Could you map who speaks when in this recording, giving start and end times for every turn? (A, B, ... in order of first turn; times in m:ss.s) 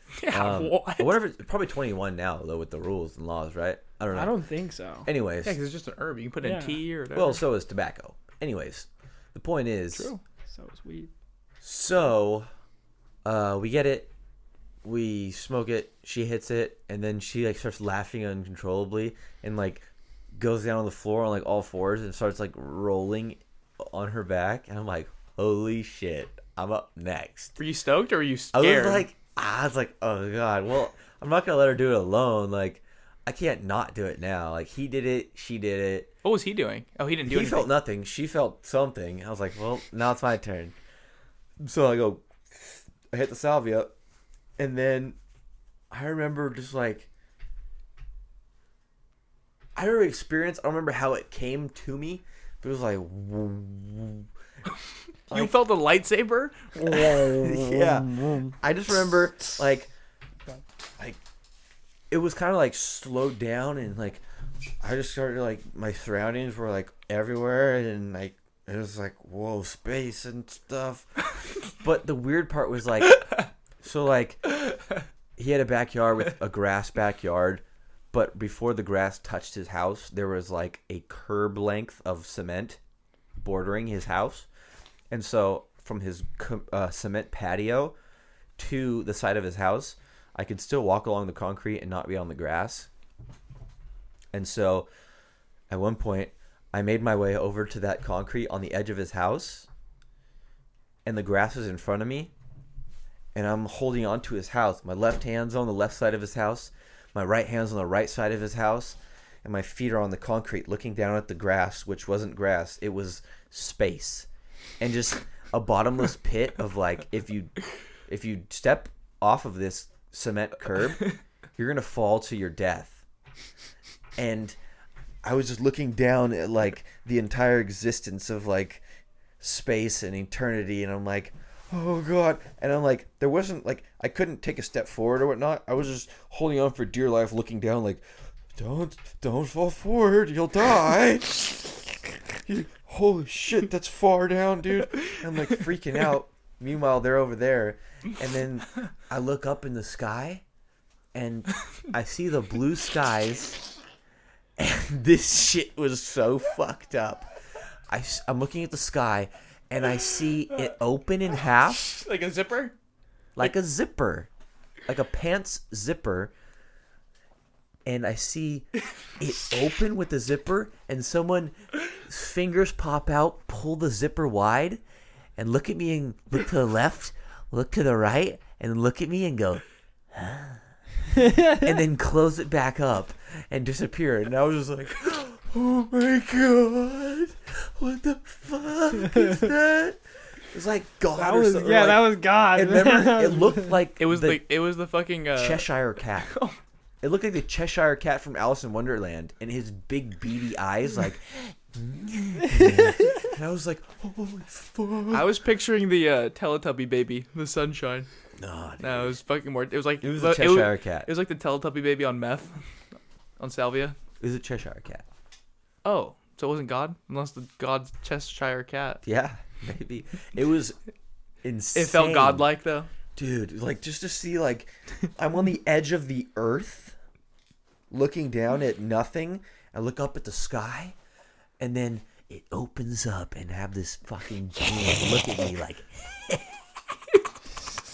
0:00.2-0:01.2 A
0:00.3-0:04.3 B
0:04.1-0:05.1 C
0:05.1-0:05.6 B
0:05.4-0:07.4 A
0:06.4-0:06.8 C
0:07.1-0:10.1 B
0:09.9-0:10.2 A
0:10.5-0:11.1 C
0:11.6-0:12.5 B
0:13.2-0:14.1 B
0:14.8-0:27.6 B
0:27.6-0:29.1 A
0:28.5-0:36.1 B
0:36.2-0:37.7 A
0:37.3-0:40.8 B
0:41.6-0:43.9 B
0:44.6-0:45.2 B
0:45.9-0:47.1 B
0:49.8-0:54.3 B
0:55.3-0:55.6 B
0:55.3-0:57.4 A
0:56.9-0:59.9 B
1:02.1-1:04.2 B
1:04.8-1:11.1 B
1:11.8-1:13.2 B
1:13.1-1:13.4 A
1:13.8-1:14.5 B
1:15.4-1:22.8 B
1:23.4-1:24.5 B
1:25.1-1:28.0 B
1:28.6-1:32.9 B
1:34.3-1:34.9 B
1:35.7-1:39.7 B
1:41.0-1:42.3 B
1:43.4-1:54.3 B
1:54.8-1:57.6 B
1:58.1-2:03.0 B
2:04.2-2:04.6 B
2:05.2-2:08.8 B
2:09.4-2:18.0 B
2:18.6-2:21.8 B
2:22.5-2:30.4 B
2:31.1-2:33.6 B
2:34.6-2:37.3 B
2:37.9-2:42.0 B
2:41.8-2:42.7 A
2:43.4-2:44.3 B
2:44.9-2:46.3 B
2:47.8-2:48.7 B
2:49.2-2:54.8 B
2:55.4-3:00.6 B
3:01.2-3:01.7 C
3:01.5-3:10.0 B
3:10.5-3:14.4 B
3:11.2-3:13.8 C
3:14.0-3:16.6 A
3:15.4-3:16.3 B
3:17.0-3:25.3 B
3:25.1-3:28.1 A
3:28.4-3:29.2 B
3:28.8-3:32.6 A
3:30.0-3:31.1 B
3:33.4-3:34.0 A
3:34.2-3:35.0 B
3:35.8-3:39.0 A
3:39.0-3:40.8 B
3:41.4-3:42.5 B
3:41.8-3:42.9 A
3:43.2-3:47.0 B
3:47.9-3:51.0 B
3:51.6-3:56.5 B